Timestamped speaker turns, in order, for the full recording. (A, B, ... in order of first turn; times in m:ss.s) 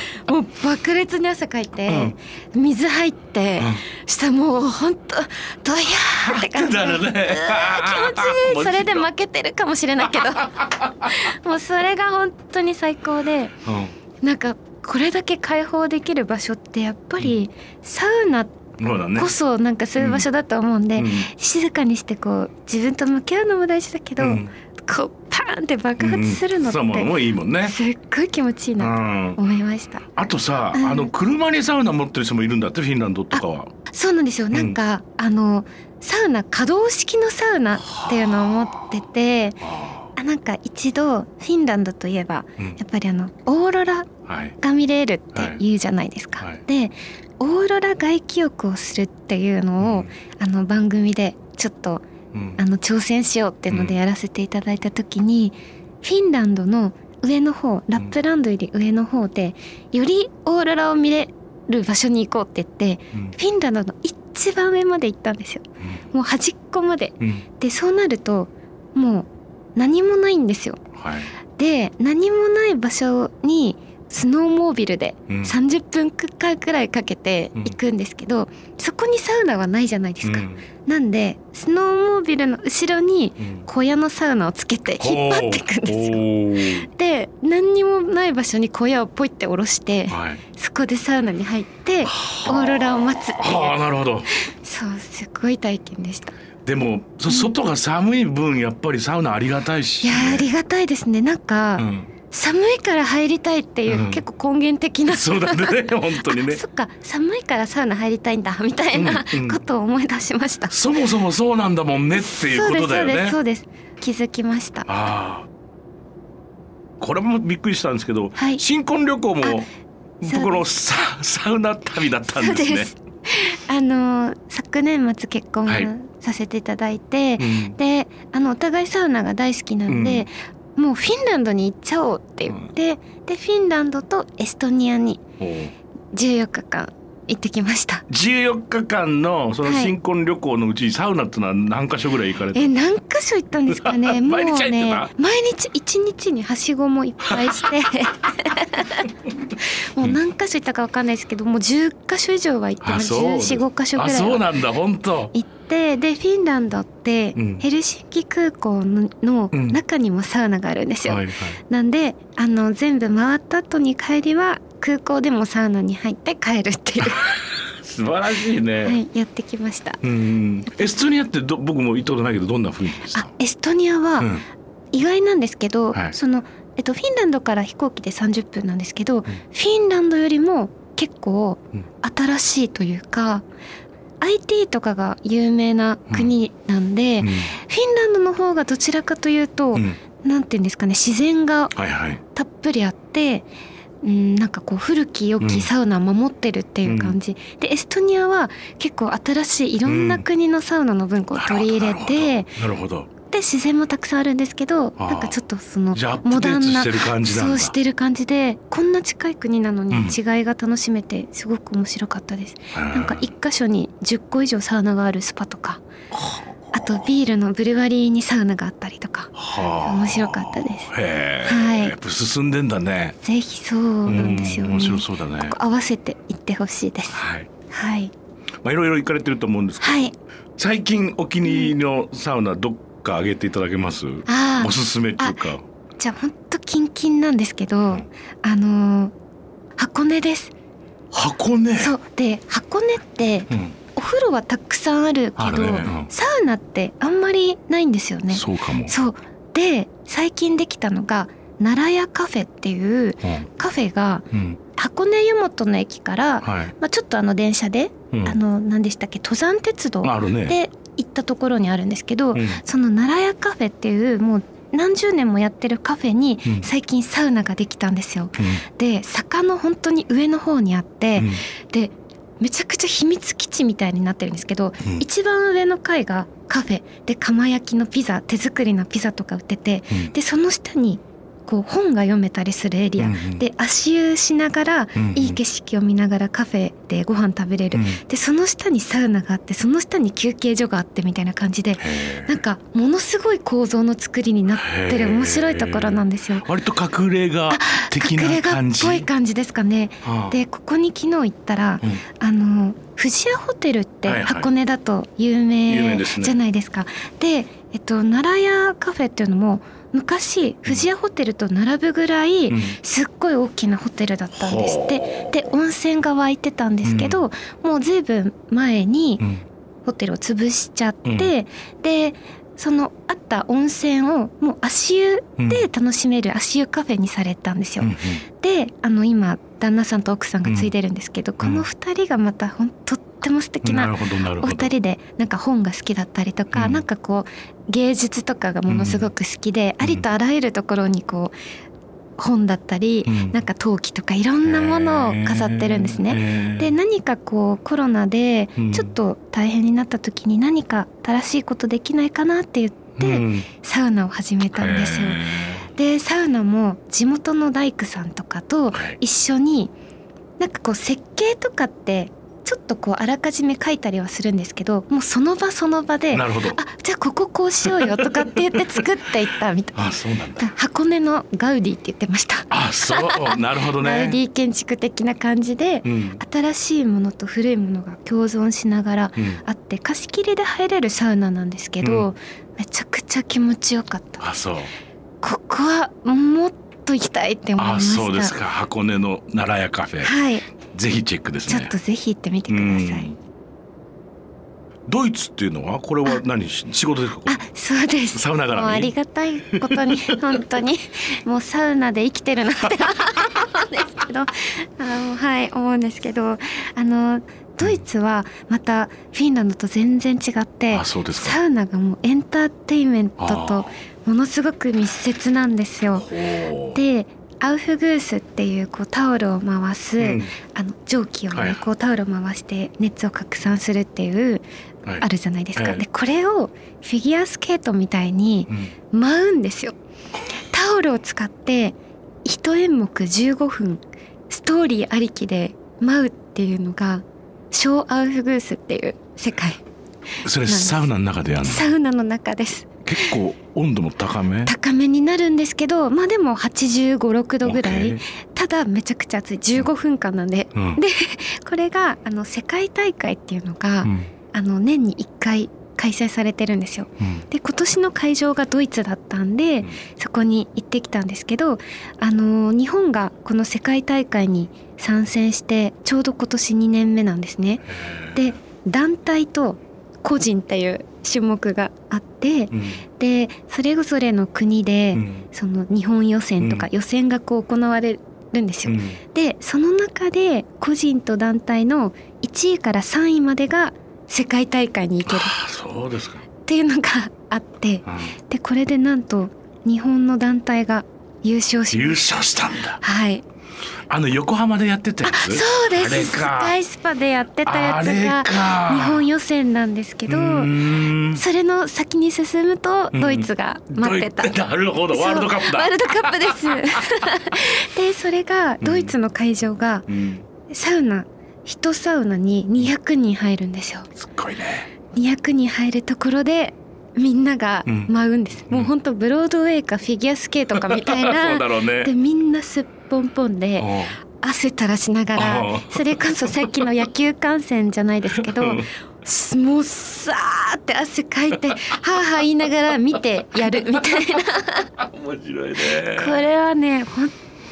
0:00.2-0:13.6 A
0:01.9-0:02.1 B
0:03.6-0:03.8 B
0:06.2-0:09.1 B
0:10.0-0:11.1 B
0:13.6-0:13.9 B
0:14.2-0:18.6 A
0:18.8-0:19.3 B
0:19.2-0:27.1 A
0:20.0-0:20.2 B
0:21.0-0:21.3 B
0:24.2-0:24.5 B
0:26.0-0:27.8 B
0:27.6-0:30.1 A
0:28.8-0:29.4 B
0:30.1-0:33.7 B
0:30.7-0:31.1 A
0:33.3-0:39.6 A
0:37.9-0:38.5 B
0:39.6-0:40.1 B
0:40.1-0:52.0 A
0:44.3-0:44.6 B
0:45.4-0:45.6 B
0:49.8-0:50.1 B
0:52.3-0:52.6 B
0:52.6-1:10.8 A
0:53.7-0:54.0 B
1:11.0-1:11.3 B
1:11.6-1:33.8 A
1:15.3-1:15.6 B
1:20.2-1:20.6 B
1:23.4-1:23.6 B
1:25.0-1:26.9 B
1:30.1-1:30.4 B
1:32.1-1:34.3 B
1:34.3-1:36.4 A
1:36.6-1:40.5 B
1:37.3-1:37.5 A
1:40.0-1:50.7 A
1:41.8-1:42.1 B
1:43.9-1:44.2 B
1:45.1-1:46.6 B
1:49.0-1:49.6 B
1:50.7-1:53.4 B
1:52.2-1:54.9 A
1:54.9-1:55.5 B
1:57.0-1:59.7 B
1:58.4-1:58.6 A
2:00.2-2:02.9 B
2:00.2-2:00.6 A
2:02.3-2:15.2 A
2:07.4-2:07.8 B
2:09.9-2:10.2 B
2:15.4-2:15.7 B
2:16.1-2:18.0 A
2:18.1-2:22.7 B
2:19.6-2:19.9 A
2:22.5-2:34.5 A
2:23.7-2:25.1 B
2:27.3-2:27.7 B
2:32.8-2:35.3 B
2:35.3-2:47.3 A
2:37.4-2:37.6 B
2:39.5-2:39.8 B
2:41.1-2:41.6 B
2:47.0-2:49.0 B
2:48.8-2:50.0 A
2:50.0-2:53.3 B
2:53.1-2:54.3 A
2:54.2-2:54.4 B
2:54.9-3:03.4 A
3:04.2-3:11.8 A
3:07.2-3:07.5 B
3:11.7-3:12.2 B
3:12.3-3:13.5 A
3:14.0-3:22.6 A
3:15.4-3:15.7 B
3:16.8-3:17.2 B
3:19.8-3:20.2 B
3:21.4-3:23.1 B
3:23.3-3:35.8 A
3:25.0-3:25.4 B
3:25.9-3:27.7 B
3:29.9-3:30.2 B
3:32.7-3:33.2 B
3:36.1-3:36.5 B
3:36.7-3:40.9 A
3:39.4-3:43.2 B
3:41.4-3:42.0 A
3:43.2-3:47.2 A
3:44.1-3:45.6 B
3:47.1-3:47.5 B
3:47.7-3:48.1 A
3:48.6-3:50.0 B
3:49.8-3:50.1 A
3:50.6-3:55.6 B
3:51.5-3:51.7 A
3:54.3-3:55.4 A
3:56.0-3:59.1 A
3:59.8-4:00.5 A
4:01.1-4:02.0 B
4:01.8-4:56.5 A
4:03.5-4:03.8 B
4:05.4-4:06.1 B
4:08.3-4:08.9 B
4:14.3-4:14.6 B
4:16.4-4:16.7 B
4:18.1-4:18.4 B
4:20.0-4:20.6 B
4:22.3-4:22.6 B
4:28.4-4:28.6 B
4:31.2-4:31.4 B
4:43.0-4:43.4 B
4:45.0-4:45.4 B
4:47.7-4:48.0 B
4:51.8-4:52.3 B
4:54.6-4:59.1 B
4:57.5-5:19.2 A
5:00.0-5:00.4 B
5:04.0-5:04.5 B
5:05.7-5:06.4 B
5:12.5-5:12.8 B
5:14.4-5:15.3 B
5:16.8-5:17.2 B
5:19.8-5:41.3 A
5:21.0-5:21.3 B
5:25.4-5:25.7 B
5:27.8-5:28.2 B
5:30.4-5:30.7 B
5:31.4-5:31.6 B
5:33.6-5:34.7 B
5:36.5-5:36.8 B
5:38.7-5:39.1 B
5:42.2-5:59.7 A
5:43.1-5:43.4 B
5:44.5-5:46.7 B
5:48.6-5:48.9 B
5:53.0-5:53.5 B
5:54.6-5:55.7 B
6:00.4-6:24.3 A
6:06.1-6:06.6 B
6:07.6-6:08.6 B
6:09.8-6:10.5 B
6:12.5-6:14.2 B
6:15.8-6:16.2 B
6:19.2-6:19.4 B
6:21.8-6:22.1 B
6:24.2-6:24.7 B
6:25.2-6:28.4 A
6:27.6-6:30.1 B
6:30.0-6:30.4 A
6:30.7-6:31.7 B
6:31.5-6:33.1 A
6:32.5-6:33.2 B
6:34.9-6:37.4 B
6:37.2-6:56.1 A
6:38.1-6:38.9 B
6:39.5-6:39.8 B
6:50.7-6:51.4 B
6:53.2-6:53.7 B
6:56.0-6:56.8 B
6:56.7-7:04.4 A
7:00.0-7:00.3 B
7:01.3-7:01.6 B
7:05.0-7:09.8 A
7:05.6-7:05.8 B
7:08.5-7:08.7 B
7:10.3-7:19.6 A
7:20.2-7:21.7 B
7:20.4-7:20.9 A
7:21.4-7:23.1 A
7:22.8-7:24.5 B
7:24.4-8:05.4 A
7:27.4-7:28.0 B
7:30.6-7:30.8 B
7:33.8-7:34.1 B
7:47.7-7:48.3 B
7:52.5-7:52.8 B
7:54.9-7:55.2 B
7:56.4-7:56.7 B
7:58.6-7:59.0 B
8:05.1-8:06.2 B
8:06.4-8:12.0 A
8:07.9-8:08.1 B
8:11.7-8:12.8 B
8:12.8-8:13.2 A
8:13.9-8:16.6 B
8:15.0-8:20.5 A
8:17.4-8:19.0 B
8:20.1-8:21.2 B
8:21.1-8:24.3 A
8:22.9-8:26.8 B
8:24.9-8:29.9 A
8:28.6-8:28.9 B
8:29.9-8:30.2 B
8:30.5-8:33.9 A
8:34.0-8:34.7 B
8:34.9-8:54.7 A
8:37.6-8:37.9 B
8:40.6-8:41.9 B
8:43.6-8:44.0 B
8:45.2-8:46.5 B
8:48.3-8:48.7 B
8:53.8-8:54.2 B
8:54.8-8:56.2 B
8:55.9-8:57.1 A